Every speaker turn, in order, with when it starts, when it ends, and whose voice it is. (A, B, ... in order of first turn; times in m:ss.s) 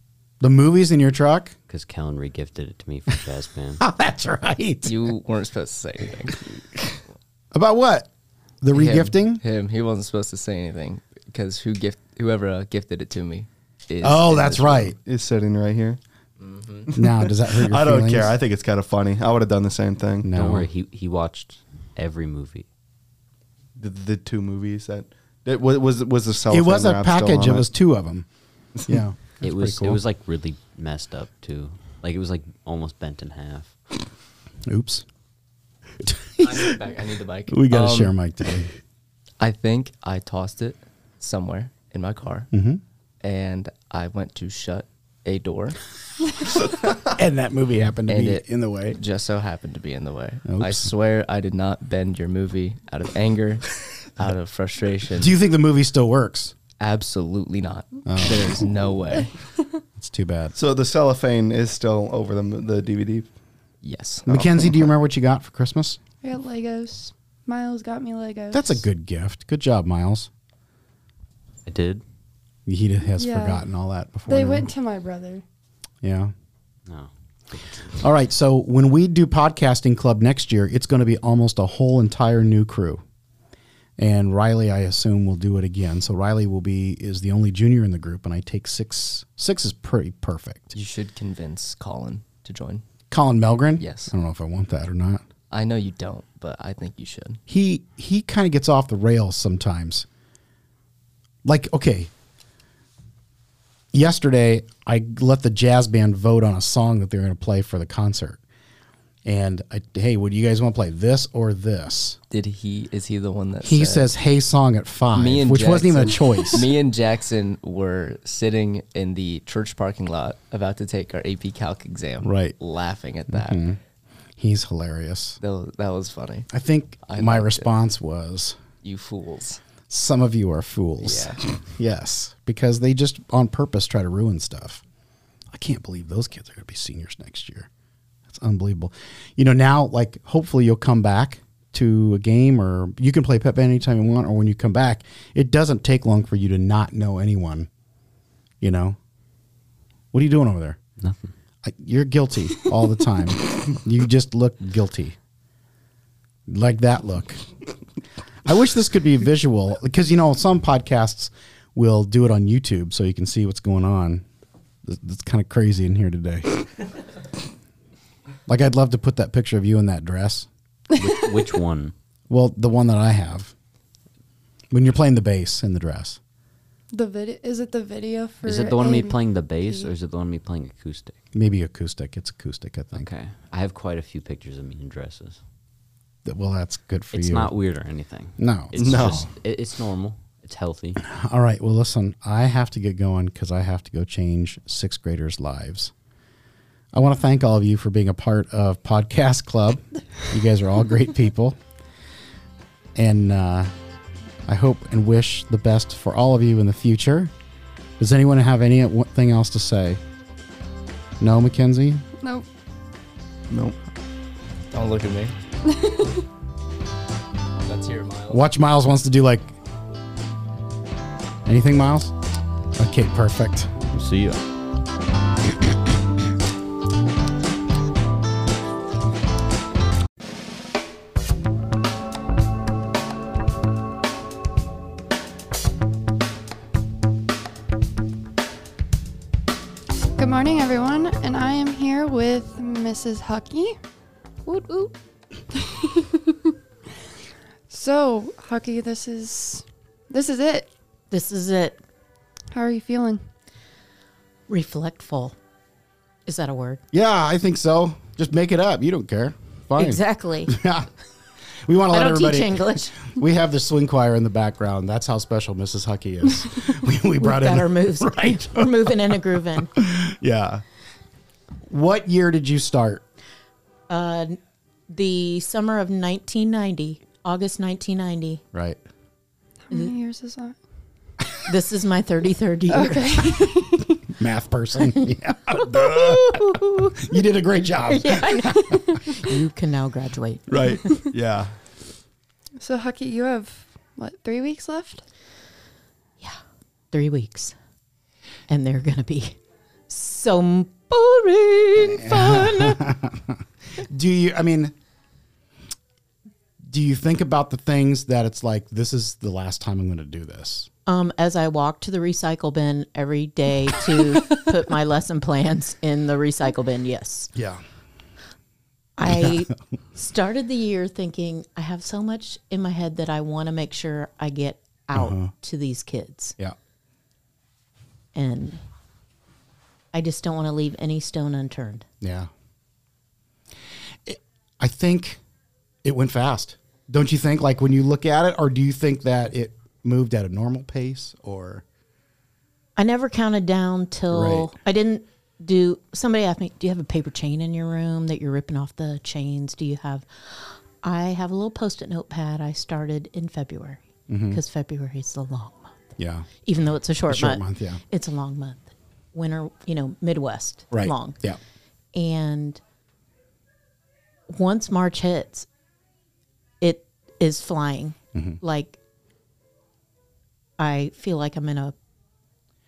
0:00.4-0:01.5 A
0:01.7-0:03.8 B
0:03.8-0:04.9 A
0:04.8-0:06.4 C
0:07.5-0:08.1 A
0:08.6-0:09.4 A
0:08.7-0:14.9 C
0:14.0-0:15.0 A
0:15.0-0:16.0 D
0:16.4-0:16.9 C
0:16.9-0:20.3 D
0:16.9-0:18.3 A
0:20.2-0:20.7 A
0:20.3-0:22.6 B
0:23.8-0:27.7 D
0:26.5-0:28.2 A
0:28.9-0:30.0 A
0:29.4-0:33.7 B
0:34.6-0:35.0 A
0:36.0-0:36.8 A
0:36.4-0:38.1 C
0:37.5-0:38.8 A
0:39.4-0:42.5 C
0:42.5-0:42.8 A
0:43.2-0:45.8 C
0:47.0-0:49.0 A
0:48.1-0:55.4 C
0:50.4-0:50.9 A
0:55.1-0:56.5 A
0:56.8-0:59.3 C
0:58.0-0:58.7 A
1:00.0-1:00.5 A
1:00.6-1:03.3 D
1:03.8-1:04.3 C
1:04.3-1:04.9 D
1:04.3-1:06.0 A
1:06.2-1:08.8 E
1:08.5-1:10.3 A
1:11.6-1:12.0 B
1:12.7-1:14.7 A
1:13.2-1:13.6 E
1:14.3-1:15.4 E
1:16.0-1:16.3 A
1:16.8-1:18.0 B
1:18.0-1:23.0 A
1:24.0-1:30.7 A
1:30.7-1:32.8 C
1:33.1-1:35.2 A
1:33.8-1:34.1 C
1:35.5-1:37.4 C
1:37.5-1:40.0 A
1:41.4-1:42.1 A
1:43.9-1:48.4 A
1:49.2-1:52.2 A
1:52.3-1:54.1 C
1:53.6-1:56.7 A
1:55.1-2:03.6 C
2:02.2-2:02.5 A
2:03.3-2:03.8 A
2:04.4-2:05.4 A
2:05.4-2:06.5 C
2:06.5-2:08.6 A
2:07.0-2:07.7 C
2:08.8-2:09.6 C
2:09.9-2:14.8 A
2:11.0-2:11.4 C
2:15.5-2:17.7 A
2:18.3-2:27.7 A
2:28.6-2:29.0 A
2:30.1-2:30.8 A
2:31.0-2:31.3 B
2:31.6-2:35.2 A
2:36.5-2:37.4 A
2:38.4-2:44.2 A
2:44.8-2:46.6 A
2:48.5-2:50.5 A
2:50.9-2:51.9 B
2:52.3-2:53.5 A
2:54.7-2:56.2 A
2:56.9-2:59.9 E
2:58.4-3:01.2 B
3:01.3-3:03.1 A
3:02.9-3:05.4 B
3:06.2-3:07.5 A
3:07.1-3:11.0 B
3:08.4-3:09.3 A
3:08.8-3:09.2 D
3:11.0-3:15.9 A
3:16.9-3:21.6 A
3:22.9-3:23.7 A
3:24.4-3:27.3 A
3:28.0-3:30.0 A
3:31.2-3:32.0 A
3:32.2-3:32.4 E
3:33.5-3:33.8 D
3:34.7-3:35.3 C
3:35.7-3:36.1 E
3:37.6-3:38.4 C
3:38.3-3:39.5 A
3:41.4-3:42.1 A
3:42.8-3:43.8 A
3:43.9-3:44.4 B
4:00.2-4:03.8 E
4:04.5-4:04.9 E
4:05.6-4:06.3 E
4:07.7-4:10.7 E
4:11.1-4:11.8 F
4:12.5-4:13.2 E
4:14.5-4:15.3 F
4:16.2-4:16.8 F
4:16.9-4:20.9 A
4:19.8-4:20.5 F
4:21.6-4:30.6 A
4:21.9-4:23.1 F
4:27.2-4:29.7 F
4:31.6-4:33.0 A
4:33.9-4:34.4 F
4:34.9-4:38.4 F
4:38.5-4:38.8 A
4:39.7-4:40.6 E
4:41.4-4:43.6 F
4:42.7-4:44.0 E
4:44.1-4:49.0 A
4:44.8-4:47.2 F
4:47.8-4:51.1 F
4:50.5-4:51.5 D
4:52.6-4:55.0 E
4:56.9-4:57.5 F
4:58.5-4:59.4 F
4:59.9-5:02.8 F
5:01.9-5:04.7 A
5:06.7-5:10.7 A
5:10.8-5:17.3 F
5:17.3-5:17.6 A
5:19.0-5:26.4 F
5:19.0-5:19.4 A
5:24.9-5:25.3 A
5:28.1-5:28.6 F
5:29.9-5:31.8 F
5:32.0-5:32.3 A
5:34.0-5:35.2 A
5:35.8-5:41.6 A
5:42.8-6:01.2 F
5:44.1-5:44.5 A
5:54.1-5:54.4 A
5:56.0-5:56.3 A
5:57.1-5:57.8 A
6:00.7-6:01.4 A
6:01.9-6:02.6 F
6:04.3-6:05.5 F
6:06.6-6:08.8 F
6:10.6-6:11.7 F